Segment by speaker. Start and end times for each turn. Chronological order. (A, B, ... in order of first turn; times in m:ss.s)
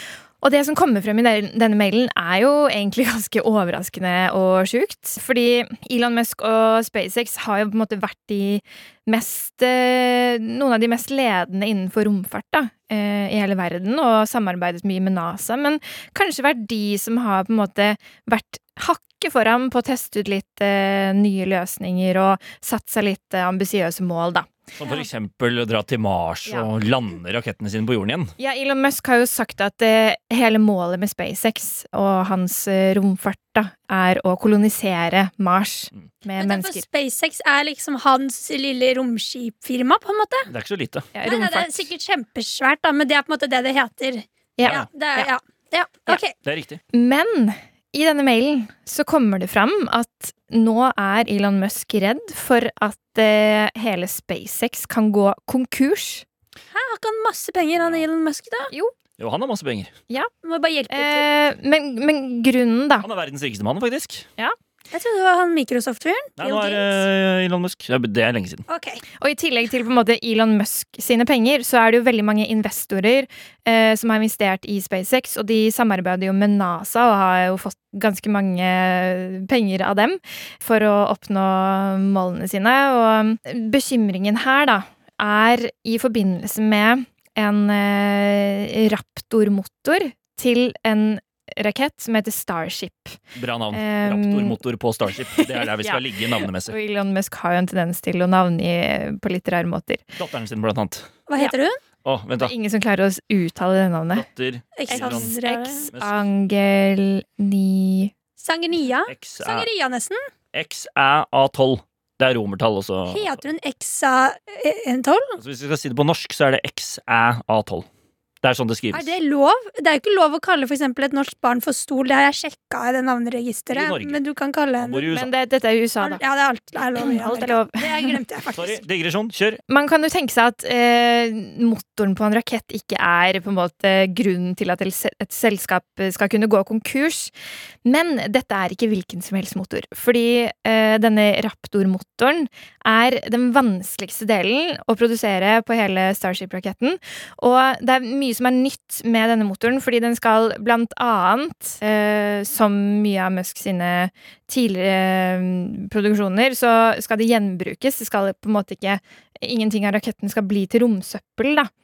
0:00.4-0:24.5 A
0:24.8-0:28.3 B
0:28.4-0:36.8 A
0:36.4-0:40.5 C
0:40.5-0:41.1 B
0:41.1-0:41.9 A
0:41.2-0:46.3 C
0:44.6-0:45.3 A
0:46.4-0:46.8 B
0:46.9-0:56.2 A
0:56.7-0:58.7 C
0:57.8-0:58.0 B
0:59.2-0:59.9 B
1:00.4-1:01.3 C
1:00.9-1:03.1 A
1:03.0-1:04.2 B
1:04.9-1:07.0 C
1:06.4-1:08.6 B
1:08.7-1:09.0 C
1:09.2-1:33.2 A
1:33.3-1:36.7 B
1:33.7-1:34.6 A
1:35.3-1:40.1 A
1:40.2-1:41.1 B
1:41.3-1:41.8 C
1:42.0-1:42.5 B
1:42.4-1:44.2 A
1:44.1-1:45.3 B
1:44.8-1:45.9 C
1:44.9-1:48.1 A
1:45.9-1:46.2 B
1:48.4-1:50.3 C
1:49.1-1:49.7 B
1:50.5-1:53.4 B
1:53.1-1:55.4 C
1:55.4-1:57.8 B
1:58.4-1:59.1 B
1:58.9-2:05.1 C
2:03.7-2:04.2 B
2:04.8-2:05.3 B
2:05.1-2:06.2 A
2:06.0-2:08.8 C
2:07.0-2:08.2 A
2:08.5-2:09.6 B
2:09.7-2:17.3 A
2:17.8-2:41.7 A